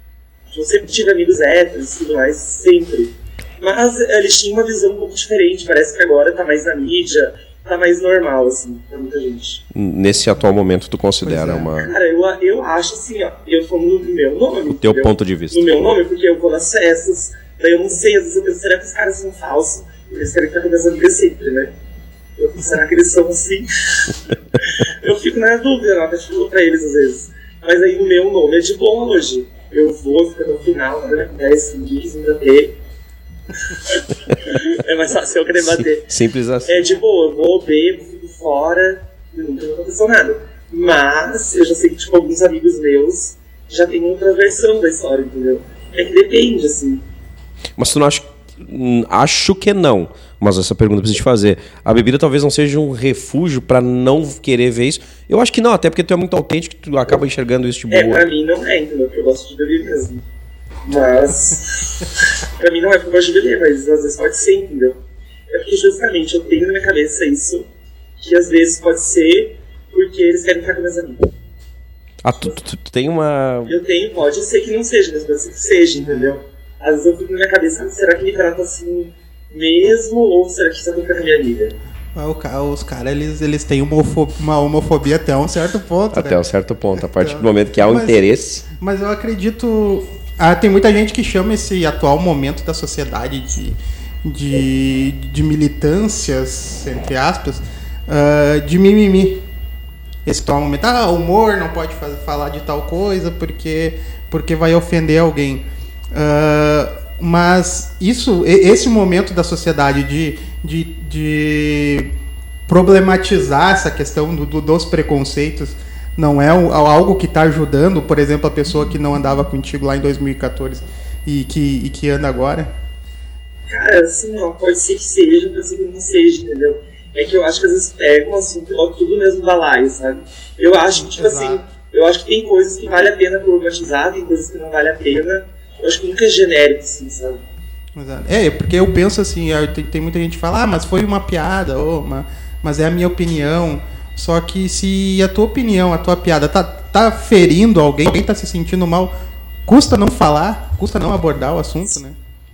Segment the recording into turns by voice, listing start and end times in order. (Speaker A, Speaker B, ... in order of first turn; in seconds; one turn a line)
Speaker A: 0.5-9.6
Speaker B: 9.7-11.9
Speaker C: 11.2-11.7
Speaker A: 11.7-21.7
Speaker B: 14.8-15.6
Speaker A: 22.4-32.8
Speaker A: 33.7-36.1
Speaker B: 35.6-36.9
Speaker A: 36.6-47.0
Speaker B: 47.8-58.2
Speaker A: 57.9-60.2
Speaker A: 60.9-65.0
Speaker A: 65.5-67.7
Speaker A: 68.2-71.3
Speaker B: 72.2-73.8
Speaker A: 73.7-81.8
Speaker C: 76.0-76.3
Speaker C: 82.2-86.4
Speaker B: 86.1-88.7
Speaker C: 87.0-99.4
Speaker C: 100.2-112.1
Speaker C: 112.7-122.7
Speaker A: 123.7-137.4
Speaker C: 130.9-131.6
Speaker C: 137.9-149.1
Speaker C: 149.7-152.2